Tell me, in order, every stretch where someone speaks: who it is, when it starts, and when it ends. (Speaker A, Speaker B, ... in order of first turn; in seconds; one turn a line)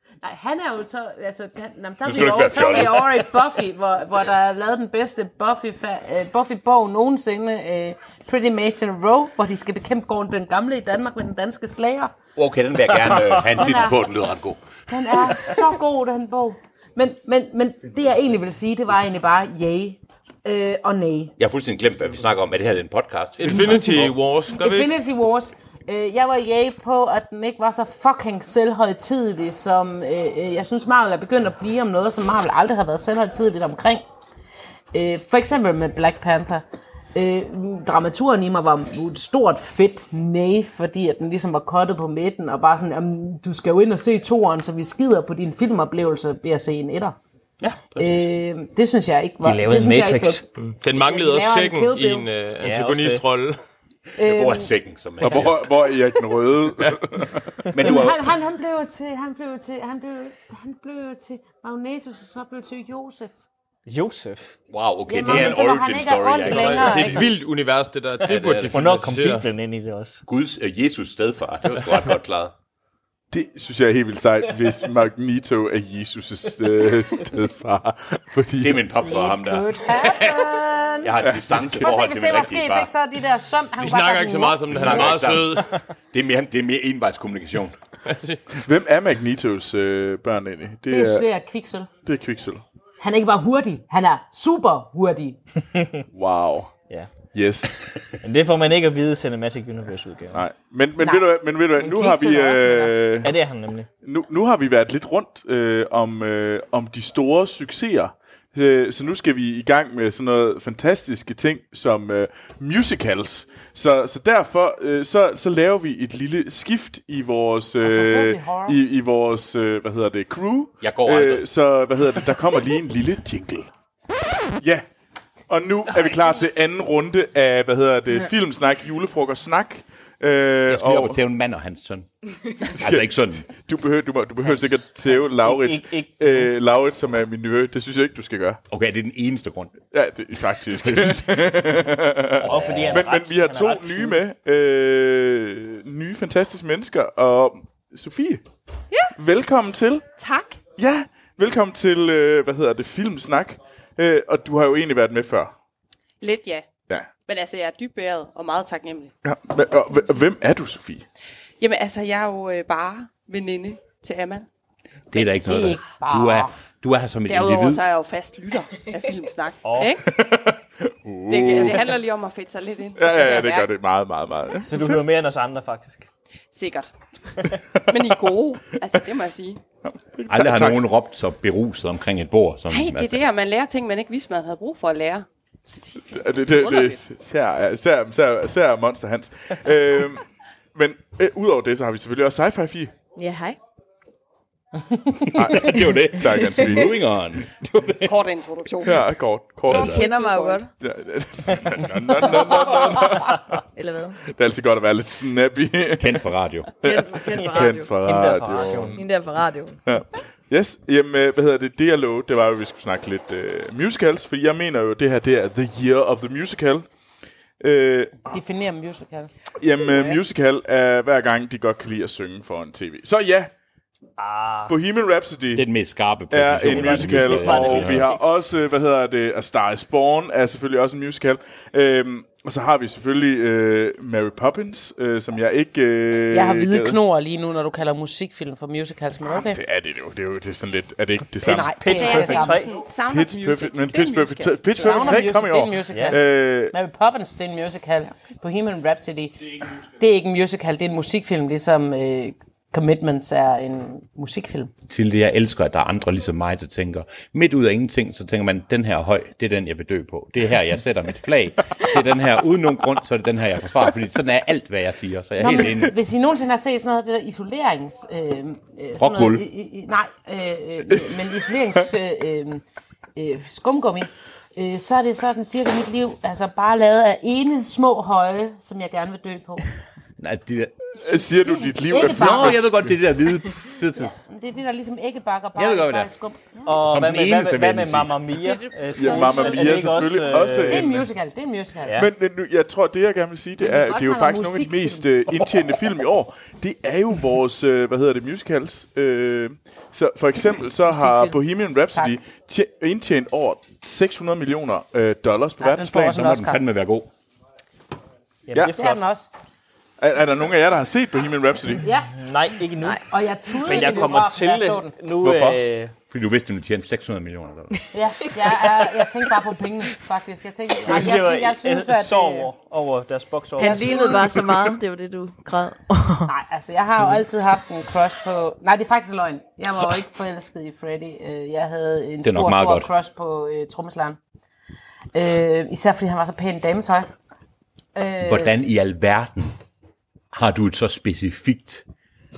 Speaker A: 0.2-12.2
Speaker B: 2.0-3.2
Speaker B: 12.3-15.3
Speaker A: 13.4-14.1
Speaker A: 14.9-21.3
Speaker B: 21.4-24.1
Speaker C: 23.4-24.9
Speaker A: 24.5-34.0
Speaker A: 34.9-36.6
Speaker A: 37.1-47.2
Speaker B: 47.6-48.2
Speaker A: 47.9-52.3
Speaker D: 49.4-50.4
Speaker C: 50.6-53.6
Speaker D: 52.6-53.2
Speaker A: 54.2-54.7
Speaker B: 54.2-55.7
Speaker E: 55.2-57.4
Speaker B: 57.7-58.4
Speaker A: 57.8-63.3
Speaker D: 63.9-64.5
Speaker B: 64.7-67.3
Speaker A: 65.1-67.3
Speaker C: 66.4-69.5
Speaker B: 68.3-68.8
Speaker D: 68.3-70.2
Speaker B: 70.2-72.5
Speaker E: 73.3-78.9
Speaker B: 78.6-82.9
Speaker A: 79.0-81.2
Speaker E: 81.2-81.9
Speaker A: 81.7-85.1
Speaker C: 83.8-85.7
Speaker B: 84.7-87.8
Speaker C: 88.0-88.4
Speaker E: 88.5-91.2
Speaker A: 90.9-91.9
Speaker E: 92.0-92.6
Speaker A: 93.0-95.4
Speaker D: 95.8-96.0
Speaker E: 96.1-96.7
Speaker E: 97.3-97.8
Speaker D: 98.2-100.4
Speaker E: 100.3-103.3
Speaker A: 101.0-103.0
Speaker D: 103.2-103.9
Speaker E: 104.0-123.7
Speaker A: 117.8-118.8
Speaker B: 120.8-121.4
Speaker E: 124.6-124.8
Speaker E: 125.5-131.2
Speaker B: 130.7-132.1
Speaker B: 132.6-133.4
Speaker E: 132.7-138.6
Speaker D: 134.4-136.5
Speaker B: 138.7-139.8
Speaker E: 139.9-148.4
Speaker B: 140.8-141.5
Speaker D: 142.4-144.2
Speaker B: 142.5-143.0
Speaker E: 149.1-150.1
Speaker F: 150.2-150.6
Speaker E: 150.8-155.5
Speaker F: 156.2-156.7
Speaker F: 157.2-159.1
Speaker E: 159.2-161.0
Speaker F: 161.6-164.5
Speaker B: 165.1-167.8
Speaker A: 165.4-166.5
Speaker F: 167.2-170.1
Speaker D: 169.6-169.9
Speaker E: 170.1-171.9
Speaker F: 171.3-173.7
Speaker E: 172.9-175.0
Speaker D: 174.7-176.1
Speaker F: 176.5-176.9
Speaker F: 177.9-179.6
Speaker E: 179.8-180.9
Speaker B: 180.3-183.2
Speaker F: 182.7-187.0
Speaker E: 186.0-192.9
Speaker G: 193.1-193.6
Speaker B: 195.3-198.2
Speaker E: 195.3-197.0
Speaker F: 198.0-199.2
Speaker E: 198.8-200.0
Speaker B: 199.7-200.0
Speaker F: 199.7-200.6
Speaker G: 199.7-200.7
Speaker E: 200.8-203.4
Speaker G: 203.7-204.2
Speaker E: 204.3-206.3
Speaker B: 206.0-206.8
Speaker G: 206.8-207.9
Speaker E: 206.8-209.0
Speaker D: 208.0-209.0
Speaker G: 208.9-209.8
Speaker E: 209.8-216.9
Speaker E: 217.6-218.4
Speaker A: 218.3-219.3
Speaker E: 219.6-223.5
Speaker A: 219.9-220.2
Speaker D: 224.2-224.7
Speaker E: 224.7-225.7
Speaker B: 225.5-228.1
Speaker E: 226.3-237.0
Speaker D: 226.7-228.2
Speaker A: 236.3-239.6
Speaker E: 239.3-241.7
Speaker D: 241.4-242.7
Speaker A: 241.4-242.7
Speaker F: 241.9-245.2
Speaker E: 243.0-246.7
Speaker A: 244.7-249.4
Speaker D: 245.9-246.2
Speaker A: 250.0-254.7
Speaker B: 254.9-265.9
Speaker A: 265.4-272.6
Speaker B: 269.0-269.4
Speaker A: 273.1-279.7
Speaker B: 280.2-280.9
Speaker E: 281.0-283.0
Speaker A: 281.7-282.8
Speaker B: 281.9-284.1
Speaker A: 283.9-286.6
Speaker B: 285.5-286.1
Speaker D: 286.6-290.9
Speaker B: 286.7-288.1
Speaker E: 288.9-291.1
Speaker G: 289.1-289.4
Speaker A: 290.7-292.0
Speaker E: 291.9-306.3
Speaker A: 293.6-295.0
Speaker A: 301.0-301.2
Speaker A: 305.6-306.6
Speaker B: 305.9-307.1
Speaker D: 308.5-309.0
Speaker A: 308.7-309.3
Speaker E: 310.0-311.8
Speaker A: 311.8-312.1
Speaker D: 312.1-313.0
Speaker A: 313.0-314.9
Speaker D: 313.6-315.9
Speaker E: 315.2-315.6
Speaker B: 316.1-317.8
Speaker A: 317.9-322.5
Speaker D: 320.8-324.3
Speaker G: 323.6-326.3
Speaker A: 323.6-324.7
Speaker A: 326.2-334.2
Speaker B: 332.2-332.9
Speaker A: 335.1-337.1
Speaker A: 337.9-338.5
Speaker B: 338.2-339.6
Speaker B: 340.3-341.9